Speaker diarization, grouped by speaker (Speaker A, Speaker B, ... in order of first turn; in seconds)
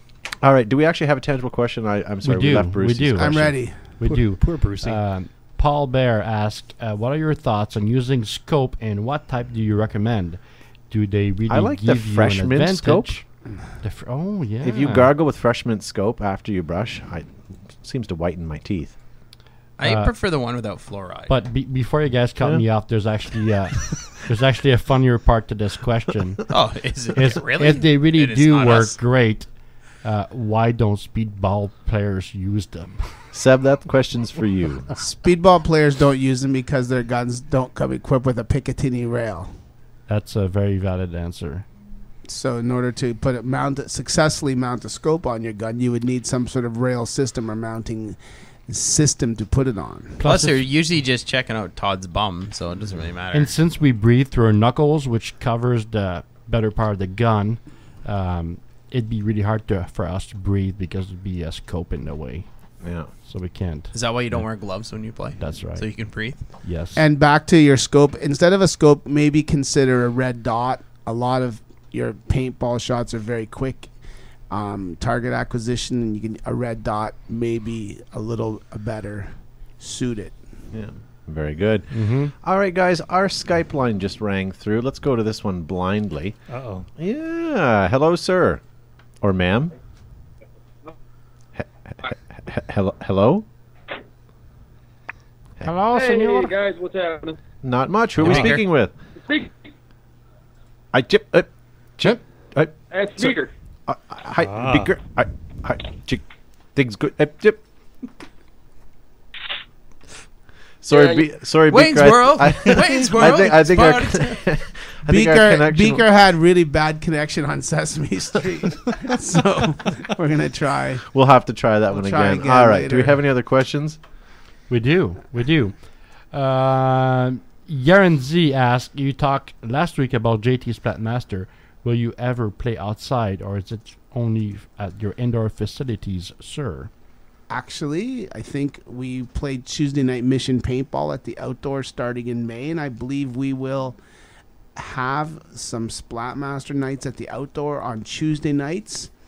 Speaker A: 0.4-3.5, 11.5-13.2, 14.6-18.9, 33.3-34.9, 62.8-63.1, 80.7-86.4, 87.0-88.6, 89.2-89.7, 91.5-93.5, 97.6-98.9, 100.9-103.3, 103.9-106.2, 106.7-107.6, 110.8-116.1, 121.1-124.0
Speaker B: 2.2-13.2, 13.8-15.1, 19.8-20.1, 21.3-26.5, 27.1-29.5, 30.0-33.0, 40.1-41.6, 50.2-50.6, 53.3-62.5, 63.3-64.4, 65.4-65.9, 66.6-67.0, 81.9-82.3, 95.6-96.5, 124.7-125.8, 126.3-136.9
Speaker C: 3.1-3.8, 35.0-39.5, 42.3-48.2, 48.7-50.2, 67.0-73.9, 74.5-80.3, 115.0-121.0, 121.9-123.2, 137.5-144.0, 144.8-149.1
Speaker D: 4.0-5.0, 86.5-86.9, 104.4-104.9
Speaker E: 19.8-21.3, 26.5-29.0, 50.2-53.5, 63.9-66.4, 98.2-98.6, 111.7-114.4
Speaker F: 95.9-97.4, 99.2-99.5, 102.9-103.5, 110.9-111.3